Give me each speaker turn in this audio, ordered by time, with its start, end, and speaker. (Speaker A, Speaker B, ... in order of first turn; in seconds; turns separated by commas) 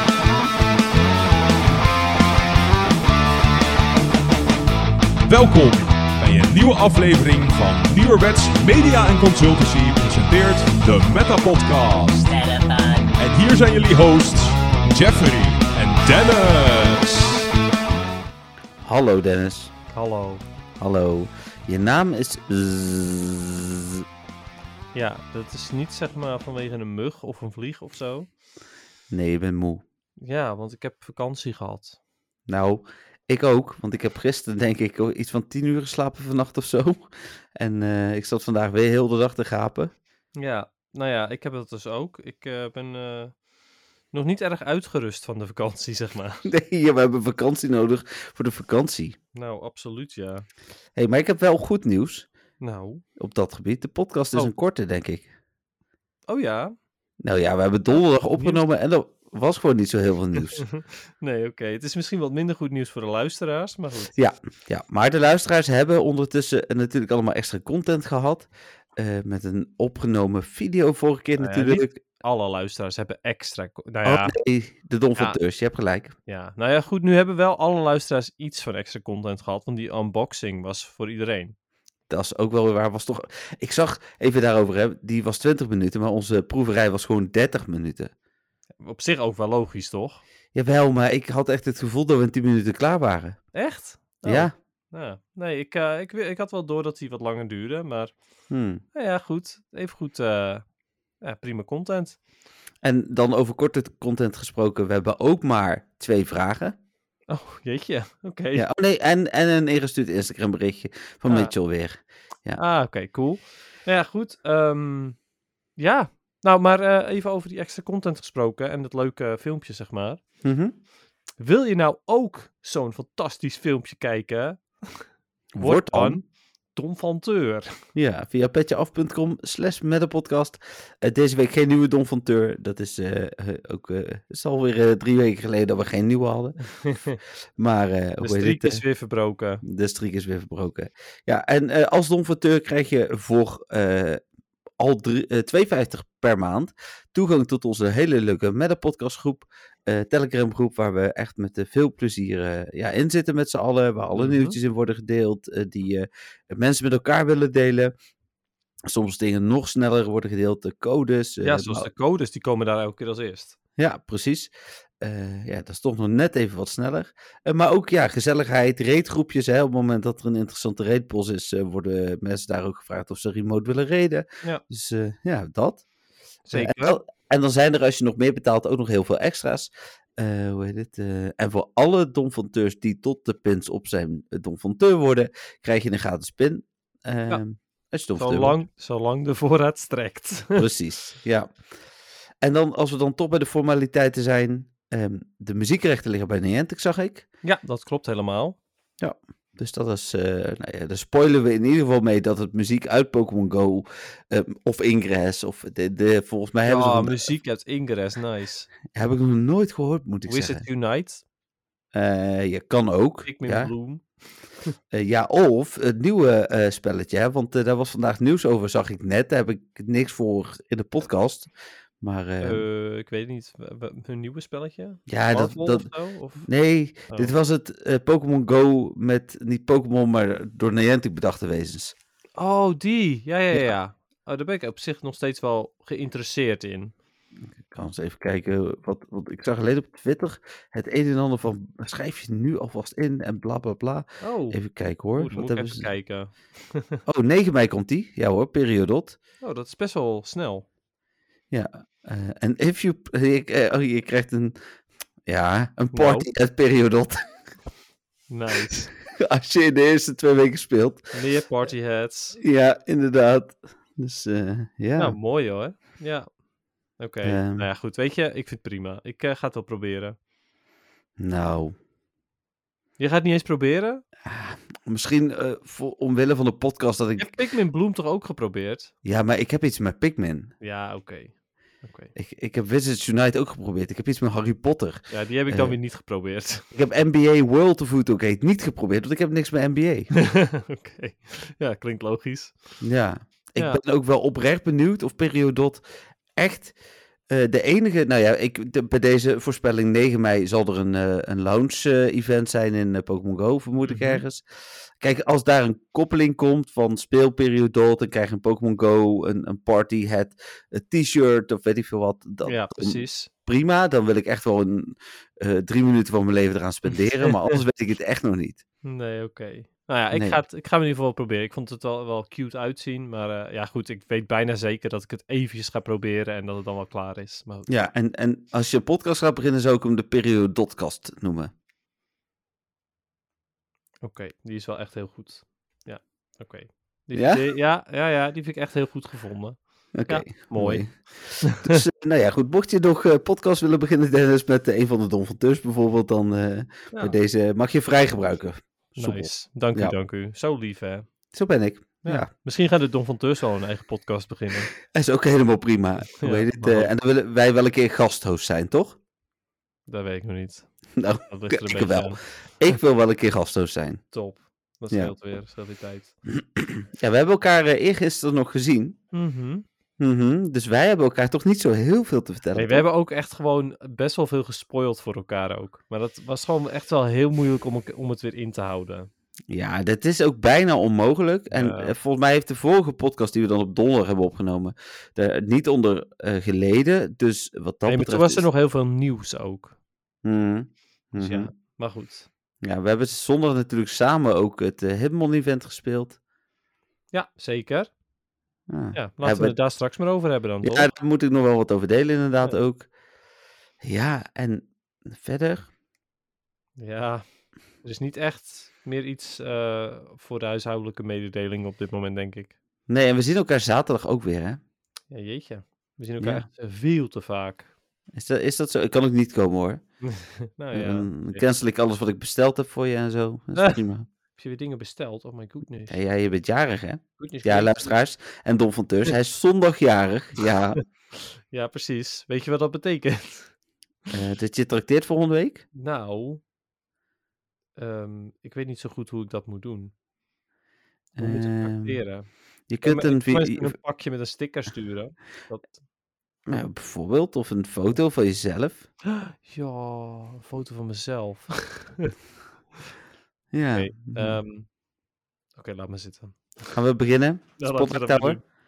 Speaker A: 5.2-17.4, Speaker B: 18.8-19.7, Speaker C: 19.9-20.4, Speaker B: 20.8-24.0, Speaker C: 24.9-28.3, Speaker B: 29.1-29.8, Speaker C: 30.2-32.0, Speaker B: 32.5-39.9, Speaker C: 40.4-43.4, Speaker C: 44.1-46.5, Speaker B: 46.4-49.1, Speaker C: 49.3-50.4, Speaker B: 51.0-52.3, Speaker C: 52.6-53.0, Speaker B: 53.2-55.3, Speaker C: 56.3-56.7, Speaker B: 57.2-60.7, Speaker C: 60.7-64.1, Speaker B: 64.1-72.0, Speaker C: 71.4-74.3, Speaker B: 74.0-76.1, Speaker C: 76.3-81.5, Speaker B: 82.1-88.1, Speaker C: 88.8-90.2, Speaker B: 90.5-93.5, Speaker C: 93.5-98.1, Speaker B: 94.2-94.5, Speaker B: 98.5-98.8, Speaker C: 98.9-100.7, Speaker C: 101.2-102.2, Speaker B: 102.8-106.8, Speaker C: 107.3-108.7, Speaker B: 108.5-112.6, Speaker C: 111.2-111.5, Speaker C: 112.5-115.2, Speaker C: 115.8-120.2, Speaker B: 120.4-120.7, Speaker C: 121.4-127.7, Speaker B: 125.5-126.2, Speaker B: 127.9-136.6, Speaker C: 136.7-137.2, Speaker B: 137.6-138.8, Speaker C: 138.2-139.6, Speaker B: 139.6-144.2, Speaker B: 144.8-157.9, Speaker C: 154.1-154.6, Speaker B: 158.9-161.9, Speaker C: 161.4-163.6, Speaker B: 163.8-175.8, Speaker C: 176.5-177.0, Speaker B: 176.5-188.6, Speaker C: 188.2-190.7, Speaker B: 190.6-191.5, Speaker B: 192.4-197.2, Speaker C: 197.4-198.6, Speaker B: 199.0-207.3, Speaker C: 206.7-208.7, Speaker B: 208.9-210.6, Speaker C: 210.2-211.2, Speaker B: 211.9-213.7, Speaker C: 213.2-214.7, Speaker B: 214.9-221.5, Speaker B: 222.0-222.6, Speaker C: 222.4-226.5, Speaker B: 225.1-225.9, Speaker B: 226.4-231.9, Speaker C: 227.1-227.3, Speaker C: 232.4-236.9, Speaker B: 237.5-245.9, Speaker C: 244.2-244.6, Speaker C: 245.1-247.0, Speaker B: 247.1-249.2, Speaker C: 249.4-250.7, Speaker B: 251.5-254.6, Speaker B: 255.2-257.2, Speaker C: 255.9-256.3, Speaker C: 258.3-258.9, Speaker B: 259.1-261.1, Speaker C: 261.1-262.4, Speaker B: 262.4-265.1, Speaker C: 264.9-266.3, Speaker C: 267.0-270.1, Speaker B: 267.2-267.7, Speaker B: 271.2-271.8, Speaker C: 273.0-274.0, Speaker B: 274.2-277.3, Speaker C: 277.2-278.9, Speaker B: 279.0-280.5, Speaker C: 280.6-282.1, Speaker B: 282.1-285.8, Speaker C: 285.1-286.6, Speaker B: 286.7-290.1, Speaker C: 290.1-292.8, Speaker B: 292.8-295.8, Speaker B: 296.4-296.7, Speaker B: 297.3-304.4, Speaker C: 303.8-304.2, Speaker B: 305.0-318.6, Speaker C: 312.4-313.3, Speaker C: 318.8-327.7, Speaker B: 320.1-320.4, Speaker B: 327.7-331.5, Speaker C: 334.0-341.8, Speaker B: 337.1-337.4, Speaker B: 339.9-349.9, Speaker C: 348.9-351.1, Speaker B: 351.3-352.3, Speaker C: 352.0-354.7, Speaker B: 354.9-359.0, Speaker C: 356.2-356.9, Speaker C: 359.9-360.7, Speaker B: 361.0-364.0, Speaker C: 361.2-362.2, Speaker C: 364.1-366.1, Speaker B: 366.4-369.0, Speaker C: 369.1-369.6, Speaker B: 370.0-372.8, Speaker C: 372.5-379.1, Speaker B: 379.5-388.4, Speaker C: 381.5-381.9, Speaker C: 387.8-389.8, Speaker B: 390.2-391.5, Speaker C: 391.2-392.3, Speaker B: 392.6-396.2, Speaker C: 397.1-397.9, Speaker B: 398.7-399.6, Speaker C: 398.9-400.9, Speaker B: 400.6-402.9, Speaker B: 403.8-405.7, Speaker C: 406.8-407.2, Speaker C: 407.8-412.6, Speaker B: 412.9-414.6, Speaker C: 415.1-417.7, Speaker B: 416.2-416.5, Speaker B: 418.1-419.8, Speaker C: 420.0-421.4, Speaker B: 420.7-424.1, Speaker C: 423.5-423.8, Speaker C: 424.3-426.0, Speaker B: 425.9-430.8, Speaker C: 427.2-428.0, Speaker C: 431.5-433.5, Speaker B: 434.1-435.6, Speaker C: 435.7-436.4, Speaker C: 437.8-439.9, Speaker B: 441.1-442.0, Speaker C: 441.2-442.3, Speaker B: 442.7-443.8, Speaker C: 442.8-445.8, Speaker B: 446.4-448.9, Speaker C: 449.1-452.1, Speaker B: 453.5-454.4, Speaker C: 453.7-454.7, Speaker C: 455.6-456.7, Speaker B: 456.7-458.4, Speaker C: 457.6-458.4